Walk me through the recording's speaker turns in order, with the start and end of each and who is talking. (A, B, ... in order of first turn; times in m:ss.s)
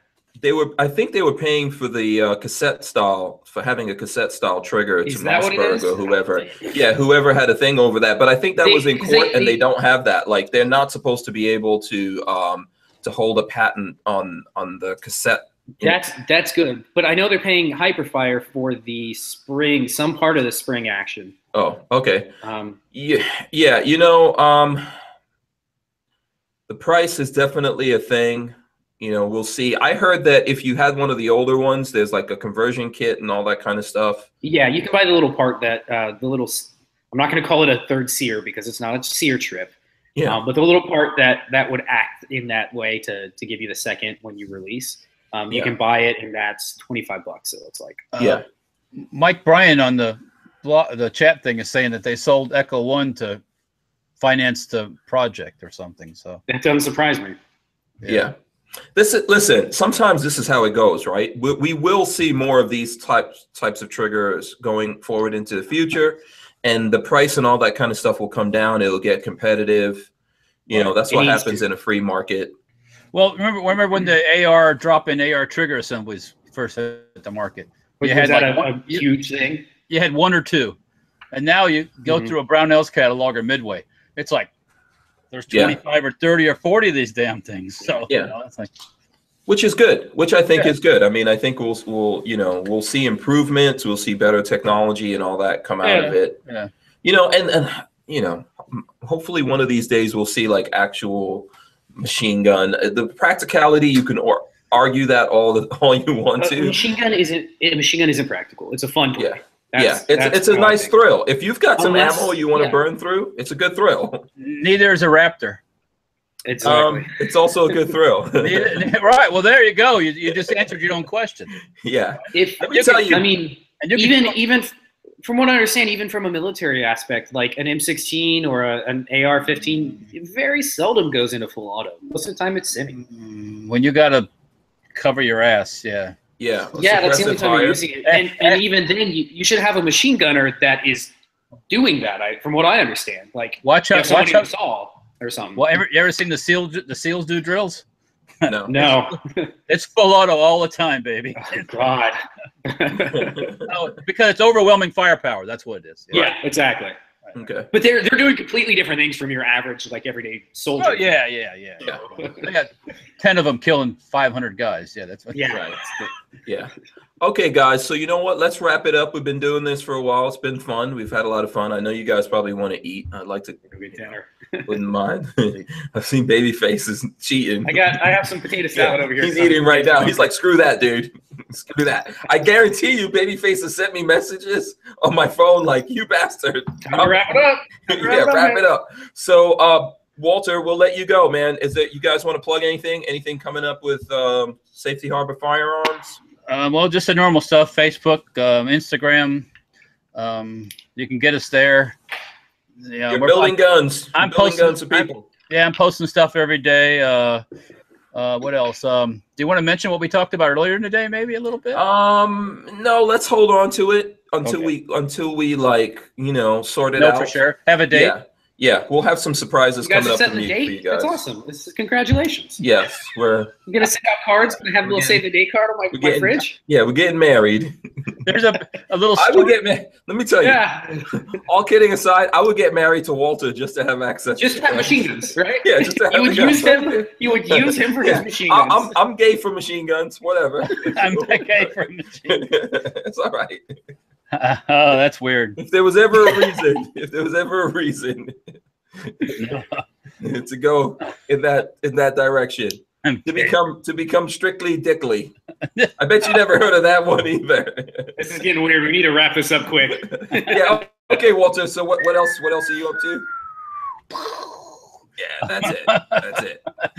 0:00.4-0:16.1 A
0:05.0-0:06.7 B
0:08.6-0:09.6 B
0:15.8-0:21.3 B
0:21.5-0:22.3 A
0:22.4-0:22.8 B
0:22.9-0:24.8 A
0:26.7-0:34.3 A
0:34.4-0:48.1 B
0:48.1-0:48.4 C
0:48.2-0:48.4 A
0:49.0-0:53.4 C
0:54.2-0:56.4 C
0:56.5-0:57.4 B
0:58.0-0:58.3 A
0:58.9-1:10.1 A
1:10.7-1:12.5 A
1:10.7-1:11.1 C
1:11.1-1:11.6 B
1:13.1-1:19.0 C
1:18.0-1:19.6 B
1:19.9-1:20.8 C
1:21.3-1:24.5 C
1:22.1-1:22.3 A
1:25.3-1:28.7 C
1:25.5-1:25.8 A
1:29.5-1:36.4 A
1:35.8-1:36.7 C
1:37.0-1:46.8 A
1:46.4-1:50.9 B
1:49.2-1:54.3 A
1:51.8-1:52.8 B
1:54.4-1:55.6 C
1:56.4-1:57.1 B
1:56.6-1:58.8 A
1:58.4-2:01.5 C
2:01.8-2:03.2 A
2:02.3-2:04.7 B
2:02.7-2:03.1 C
2:03.8-2:04.3 C
2:05.2-2:13.0 B
2:13.0-2:14.3 C
2:14.9-2:16.2 C
2:16.4-2:17.8 A
2:16.7-2:21.1 B
2:18.0-2:18.6 C
2:21.7-2:25.8 B
2:23.6-2:24.5 C
2:25.6-2:27.8 C
2:28.4-2:29.0 A
2:28.7-2:29.5 B
2:29.7-2:31.7 C
2:31.4-2:33.5 B
2:33.1-2:33.7 A
2:33.7-2:36.3 C
2:36.1-2:37.0 B
2:37.3-2:37.7 A
2:37.7-2:41.2 B
2:40.8-2:45.6 C
2:42.2-2:42.5 B
2:45.3-2:46.1 B
2:45.5-2:45.8 A
2:46.4-2:54.1 A
2:53.7-2:54.7 B
2:54.6-2:58.0 A
2:57.6-3:00.3 B
2:58.7-3:16.2 A
3:06.8-3:08.6 B
3:16.5-3:19.5 C
3:20.1-3:21.9 C
3:22.8-3:23.6 C
3:23.1-3:25.3 A
3:24.1-3:27.4 C
3:28.1-3:31.8 C
3:31.7-3:37.4 A
3:37.0-3:38.1 C
3:37.9-3:41.2 A
3:39.8-3:42.6 B
3:42.6-3:43.6 A
3:43.7-3:46.6 B
3:45.9-3:48.2 A
3:48.2-3:49.5 C
3:49.2-4:01.8 A
3:50.4-3:51.1 B
3:54.4-3:58.9 B
4:00.7-4:02.4 C
4:02.3-4:03.8 A
4:04.3-4:05.6 C
4:05.6-4:09.5 A
4:06.2-4:06.5 C
4:09.3-4:09.8 C
4:10.2-4:15.3 A
4:13.0-4:13.5 C
4:16.0-4:18.2 A
4:18.2-4:20.9 B
4:20.1-4:23.2 A
4:24.1-4:24.7 C
4:25.2-4:26.6 A
4:25.9-4:26.2 C